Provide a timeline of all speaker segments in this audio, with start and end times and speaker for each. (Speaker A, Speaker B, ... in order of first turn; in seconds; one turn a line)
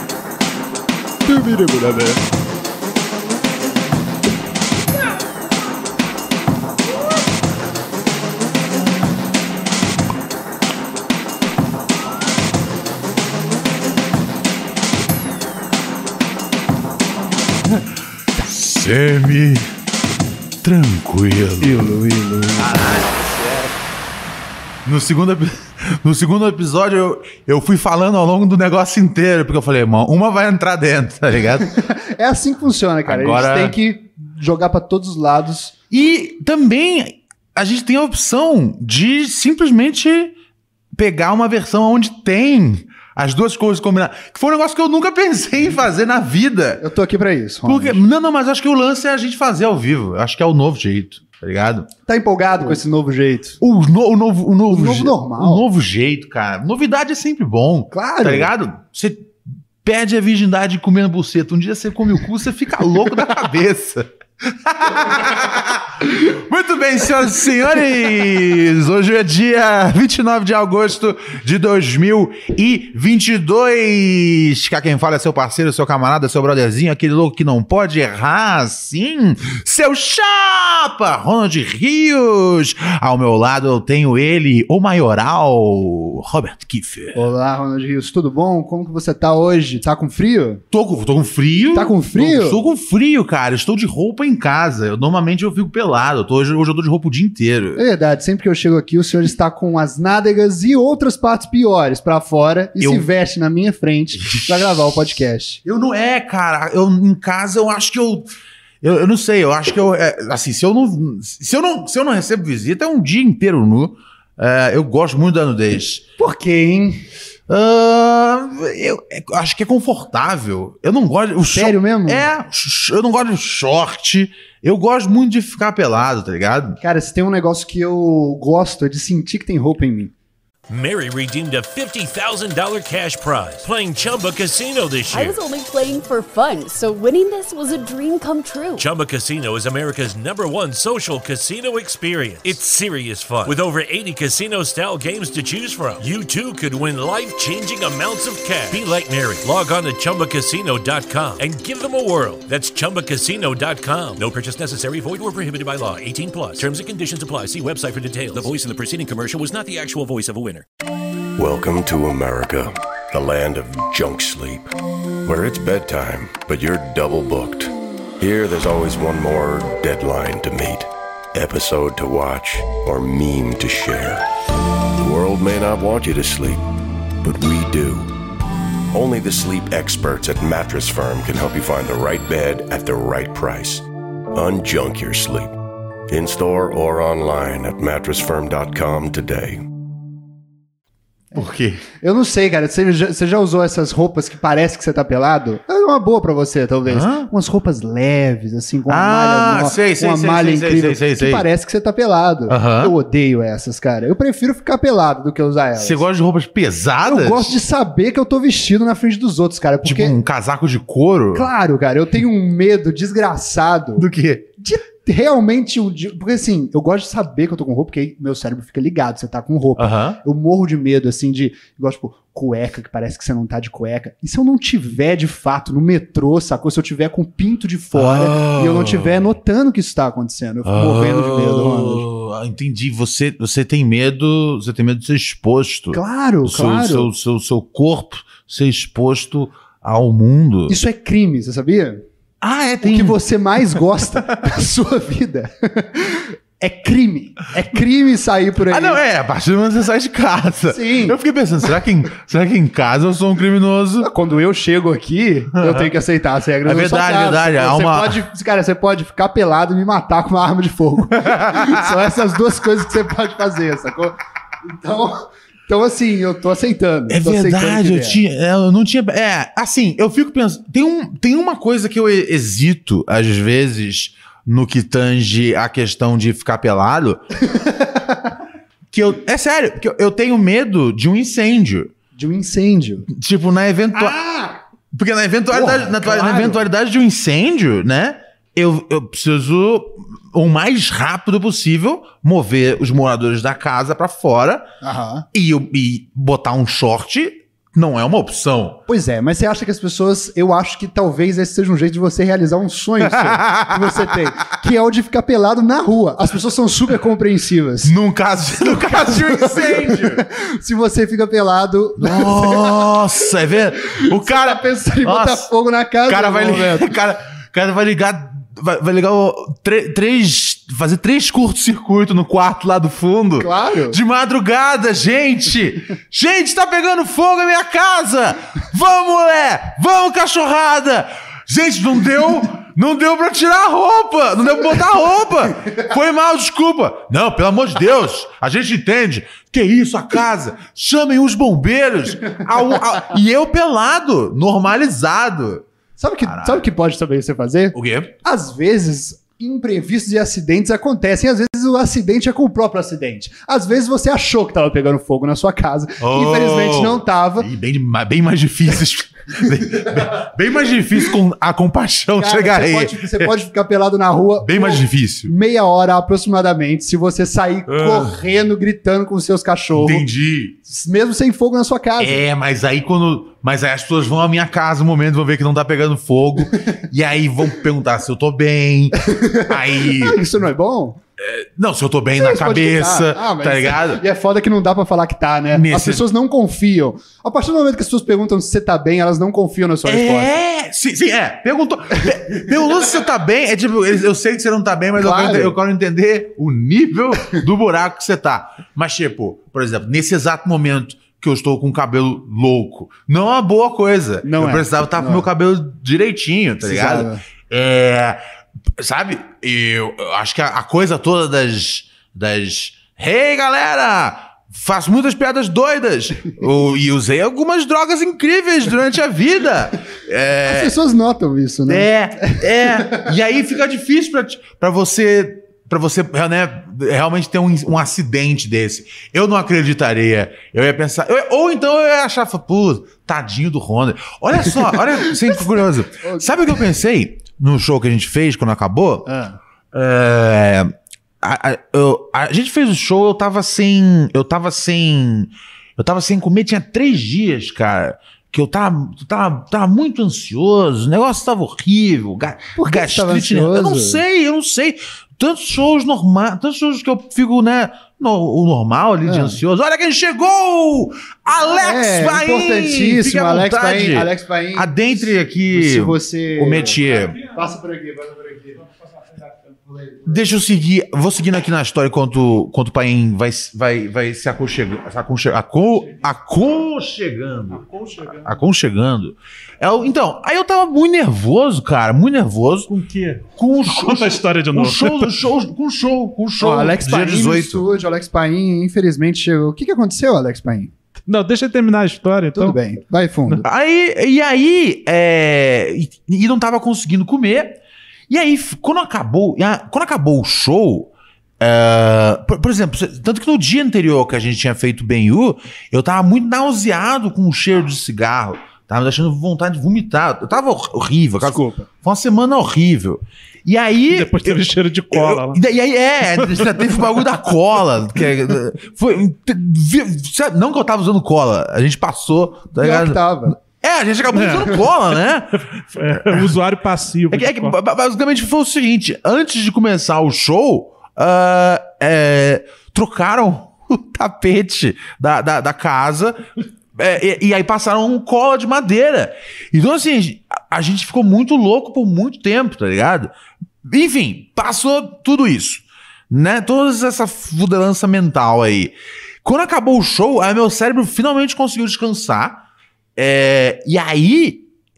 Speaker A: 1.3-2.1
Speaker B: 17.7-19.7
Speaker B: 20.6-21.9
Speaker A: 21.6-22.9
Speaker B: 22.6-23.8
Speaker B: 24.9-31.7
Speaker A: 31.8-35.8
Speaker B: 33.1-33.8
Speaker B: 35.9-40.3
Speaker B: 41.0-46.8
Speaker A: 46.8-48.0
Speaker B: 47.6-51.9
Speaker A: 52.1-53.6
Speaker B: 53.6-87.2
Speaker A: 54.7-55.6
Speaker A: 57.9-58.5
Speaker A: 87.2-90.6
Speaker B: 90.7-97.8
Speaker A: 91.7-92.6
Speaker A: 97.8-105.6
Speaker B: 102.8-103.1
Speaker B: 104.2-104.8
Speaker B: 105.6-108.3
Speaker B: 108.8-116.0
Speaker A: 116.2-117.0
Speaker B: 117.5-126.8
Speaker A: 121.5-122.3
Speaker A: 126.8-130.1
Speaker C: 130.7-135.4
Speaker D: 135.1-138.9
Speaker C: 138.8-160.7
Speaker E: 161.4-164.7
Speaker E: 165.2-174.2
Speaker E: 175.0-176.6
Speaker E: 177.2-178.1
Speaker E: 178.9-185.5
Speaker E: 186.1-189.6
Speaker B: 191.3-191.8
Speaker A: 192.0-206.0
Speaker B: 196.9-197.3
Speaker B: 198.9-201.5
Speaker B: 202.5-202.9
Speaker B: 205.8-207.6
Speaker A: 207.0-210.2
Speaker B: 209.8-211.5
Speaker A: 211.3-214.1
Speaker B: 214.0-214.5
Speaker A: 214.6-232.1
Speaker B: 219.8-220.2
Speaker B: 227.9-229.3
Speaker B: 230.7-240.8
Speaker A: 235.9-237.1
Speaker A: 240.7-242.0
Speaker B: 242.4-243.8
Speaker A: 242.8-249.0
Speaker B: 248.7-254.1
Speaker A: 250.7-251.2
Speaker A: 254.1-268.2
Speaker B: 255.6-255.9
Speaker B: 256.6-258.2
Speaker B: 261.1-262.1
Speaker B: 267.1-277.2
Speaker B: 278.9-281.9
Speaker A: 282.2-283.1
Speaker B: 283.1-284.2
Speaker A: 283.9-284.6
Speaker B: 284.9-294.7
Speaker A: 285.5-286.6
Speaker A: 294.8-295.3
Speaker B: 295.3-298.8
Speaker A: 298.9-307.9
Speaker B: 303.0-304.3
Speaker B: 307.8-310.2
Speaker A: 308.6-313.1
Speaker B: 312.0-315.5
Speaker A: 313.9-316.9
Speaker B: 316.1-345.7
Speaker A: 323.4-324.0
Speaker A: 346.0-357.5
Speaker B: 346.2-346.7
Speaker B: 347.7-348.1
Speaker B: 356.0-363.4
Speaker A: 362.2-370.1
Speaker B: 364.4-365.3
Speaker B: 367.7-368.2
Speaker B: 369.8-370.6
Speaker A: 370.6-372.2
Speaker B: 372.0-380.2
Speaker A: 379.1-381.0
Speaker B: 381.2-384.0
Speaker A: 382.2-390.3
Speaker B: 385.5-386.0
Speaker B: 389.9-408.2
Speaker A: 395.0-395.6
Speaker A: 404.2-405.3
Speaker A: 406.6-407.2
Speaker B: 408.8-420.8
Speaker A: 420.4-423.1
Speaker B: 421.7-439.1
Speaker A: 436.0-436.4
Speaker A: 439.1-439.4
Speaker B: 439.7-467.2
Speaker A: 452.6-454.0
Speaker A: 459.1-459.4
Speaker A: 461.3-466.8
Speaker F: 466.9-467.4
Speaker A: 467.3-468.6
Speaker A: 469.7-470.2
Speaker B: 470.1-482.7
Speaker F: 477.5-478.4
Speaker F: 482.7-485.1
Speaker B: 483.4-487.7
Speaker A: 486.4-490.7
Speaker F: 491.1-492.6
Speaker A: 492.4-493.4
Speaker B: 493.4-497.6
Speaker B: 498.1-525.4
Speaker A: 511.2-511.7
Speaker F: 513.9-515.4
Speaker F: 516.2-516.5
Speaker A: 522.6-523.4
Speaker F: 524.1-524.7
Speaker F: 525.5-527.6
Speaker B: 527.1-536.2
Speaker B: 536.8-543.1
Speaker B: 543.6-552.4
Speaker B: 553.0-554.5